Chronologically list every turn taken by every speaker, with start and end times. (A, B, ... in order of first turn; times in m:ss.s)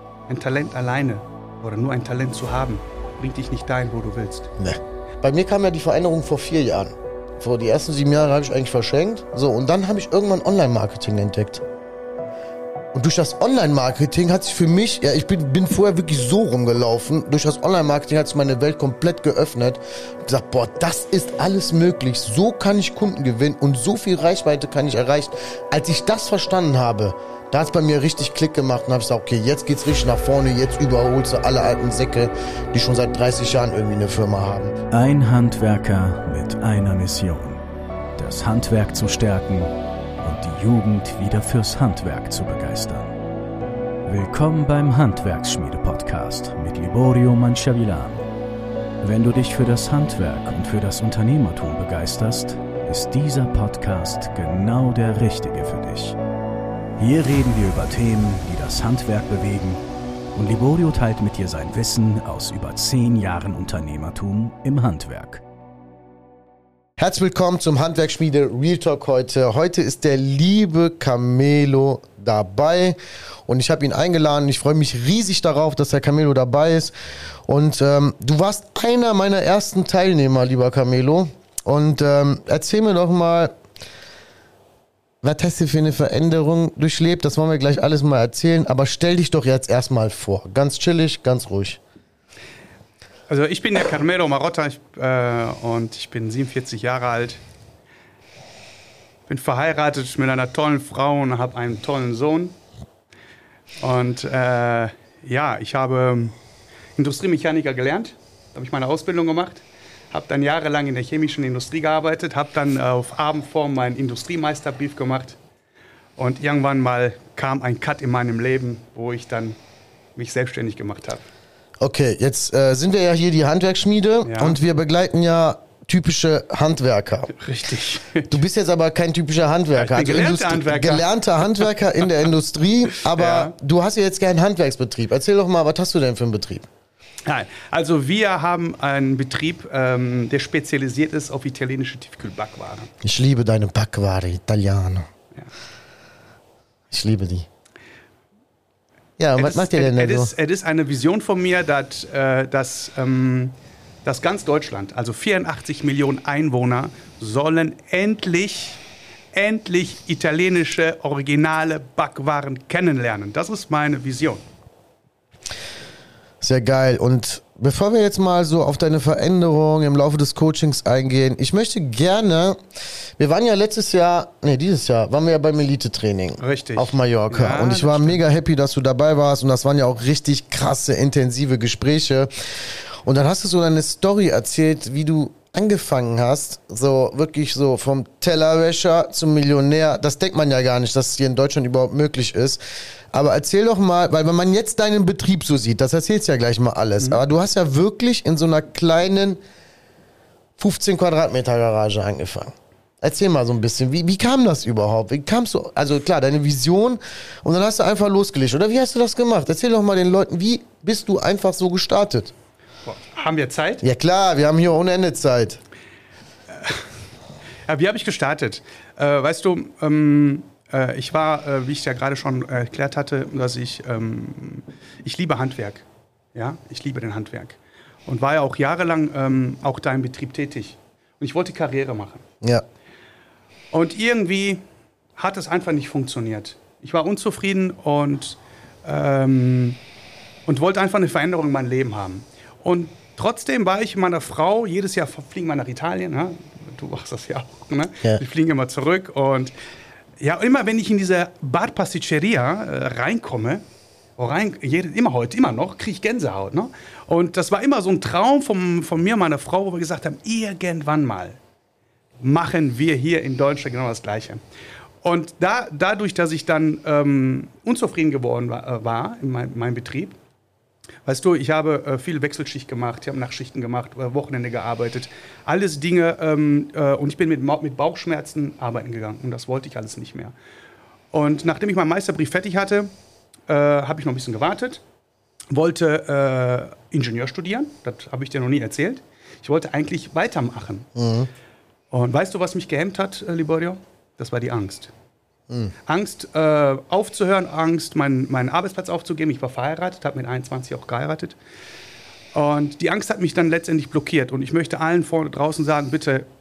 0:00.3-0:04.5 A
0:04.6-0:11.6 B
0:12.9-0:34.8 B
0:34.9-0:37.6 C
0:38.2-0:43.1 C
0:44.0-0:48.3 C
0:49.0-0:56.2 C
0:57.0-0:59.8 C
1:00.3-1:05.4 C
1:07.0-1:16.9 B
1:17.4-1:23.5 B
1:25.2-1:31.8 B
1:33.3-1:37.4 A
1:39.3-1:42.6 A
1:43.8-1:46.3 A
1:47.0-1:55.4 A
1:56.2-1:59.6 A
2:00.2-2:01.2 A
2:01.8-2:07.3 B
2:04.2-2:04.6 A
2:07.3-2:08.4 A
2:08.3-2:16.7 B
2:09.7-2:12.1 A
2:13.0-2:13.5 A
2:17.2-2:22.9 A
2:23.0-2:25.0 B
2:26.9-2:27.5 B
2:29.2-2:30.3 B
2:29.4-2:38.8 A
2:39.3-2:44.4 A
2:46.4-2:52.6 B
2:53.2-3:12.6 B
2:56.4-2:58.2 A
3:13.1-3:19.4 B
3:20.6-3:32.3 B
3:32.8-3:33.8 A
3:33.8-3:35.6 B
3:36.5-3:36.9 A
3:37.7-3:52.2 A
3:53.7-3:54.6 A
3:55.2-3:59.8 A
4:00.4-4:09.5 A
4:10.2-4:13.6 A
4:14.2-4:21.4 A
4:22.2-4:24.4 A
4:25.0-4:30.2 A
4:31.0-4:40.3 A
4:41.1-4:42.9 A
4:43.5-4:44.8 A
4:45.5-4:50.9 A
4:50.9-4:51.3 B
4:51.9-4:54.9 A
4:55.9-5:01.4 A
5:02.3-5:06.3 A